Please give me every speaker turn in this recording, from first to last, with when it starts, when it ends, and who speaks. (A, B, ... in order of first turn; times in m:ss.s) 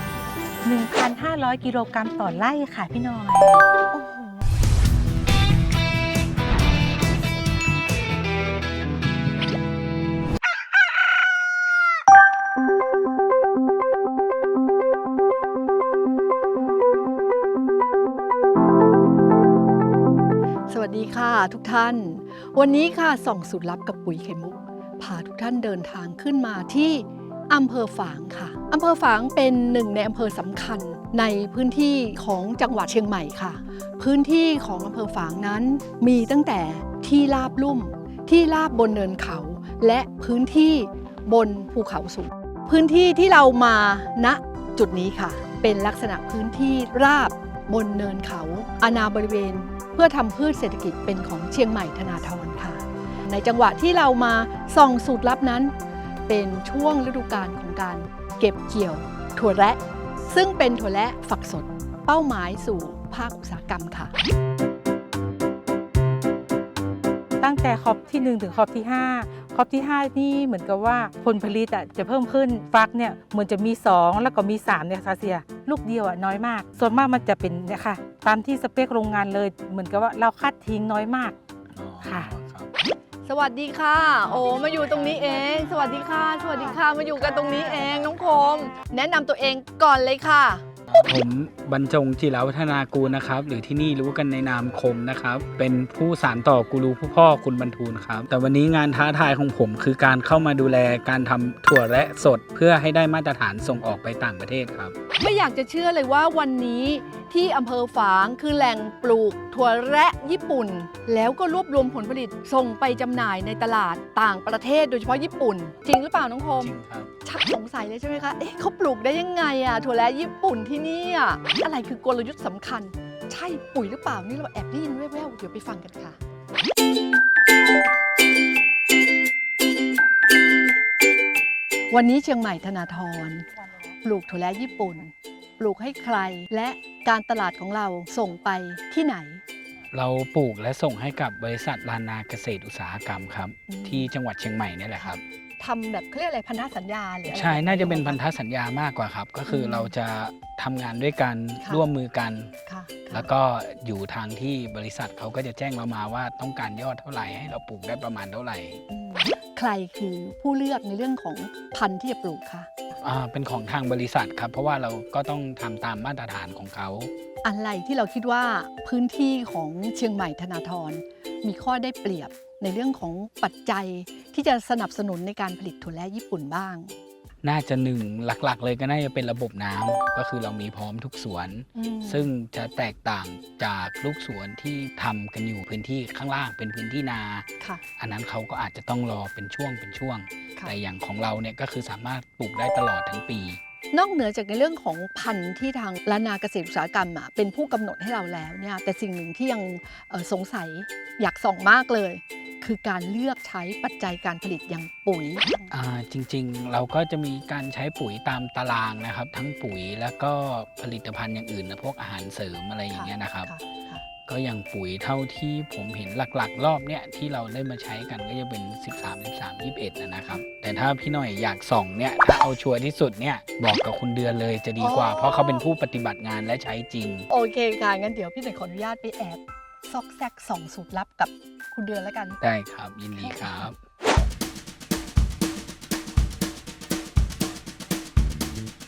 0:00.6-0:03.6 A
0:03.9-0:04.4 B
0:20.7-0:55.7 B
0:56.3-1:04.1 B
1:07.4-1:21.4 A
1:21.7-1:22.7 C
1:22.0-1:22.3 A
1:23.2-1:31.1 B
1:27.5-1:28.0 C
1:30.9-1:45.0 C
1:45.2-2:06.2 B
1:56.6-1:57.1 C
2:11.9-2:13.5 B
2:14.0-2:19.4 B
2:19.9-2:25.2 C
2:23.7-2:24.1 B
2:25.0-2:28.2 B
2:27.3-2:32.5 C
2:29.5-2:29.9 B
2:31.6-2:31.8 B
2:32.6-2:33.3 B
2:33.1-2:38.8 C
2:38.9-2:42.7 B
2:43.0-2:47.1 C
2:47.4-2:56.9 B
2:57.4-3:07.5 C
3:01.7-3:02.3 B
3:08.0-3:13.6 C
3:13.9-3:25.7 B
3:25.7-3:33.5 C
3:32.9-3:34.0 B
3:34.2-3:47.3 C
3:44.8-3:45.7 B
3:47.3-3:52.4 B
3:52.4-3:53.7 C
3:53.2-3:53.6 B